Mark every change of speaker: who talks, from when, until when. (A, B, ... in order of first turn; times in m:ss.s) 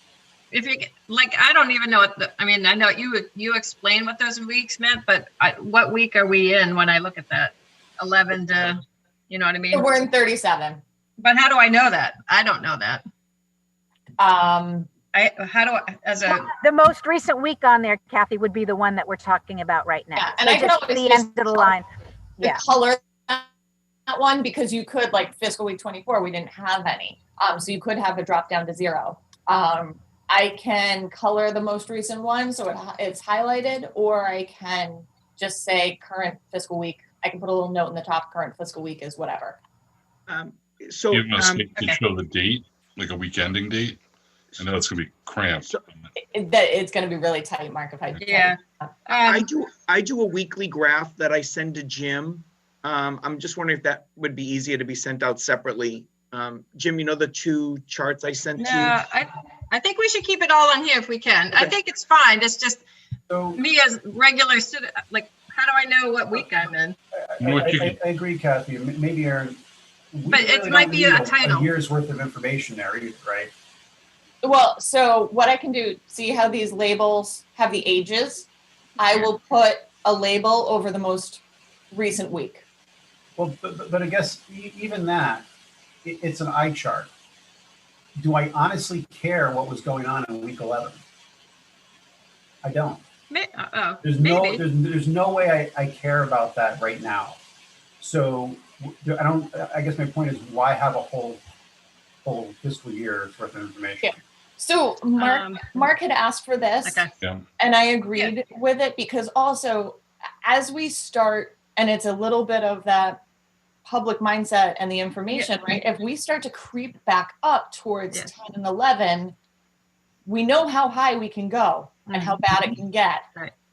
0:00.5-0:10.0 A
0:09.7-0:10.8 B
0:11.2-0:13.0 A
0:14.2-0:14.9 B
0:15.1-0:16.5 A
0:16.5-0:21.9 C
0:20.1-0:21.8 B
0:22.4-0:23.5 B
0:24.1-0:39.6 B
0:40.3-0:41.7 D
0:41.1-0:44.0 E
0:44.5-0:46.1 E
0:46.2-0:48.9 B
0:48.2-0:49.4 A
0:49.2-0:59.1 D
0:58.6-1:02.8 A
1:03.3-1:03.6 F
1:03.5-1:07.0 A
1:07.1-1:09.6 F
1:07.4-1:08.0 E
1:10.1-1:13.5 F
1:10.3-1:11.7 A
1:14.4-1:22.6 B
1:23.4-1:25.4 F
1:26.0-1:27.1 F
1:28.2-1:31.0 F
1:32.6-1:33.0 F
1:33.3-1:34.6 A
1:34.0-1:37.4 F
1:38.0-1:41.4 F
1:42.2-1:44.2 F
1:44.0-1:47.0 B
1:45.2-1:45.9 A
1:46.8-1:47.1 A
1:47.6-1:53.2 B
1:53.8-1:59.3 B
1:55.3-1:55.6 A
2:00.2-2:03.2 B
2:02.1-2:02.7 A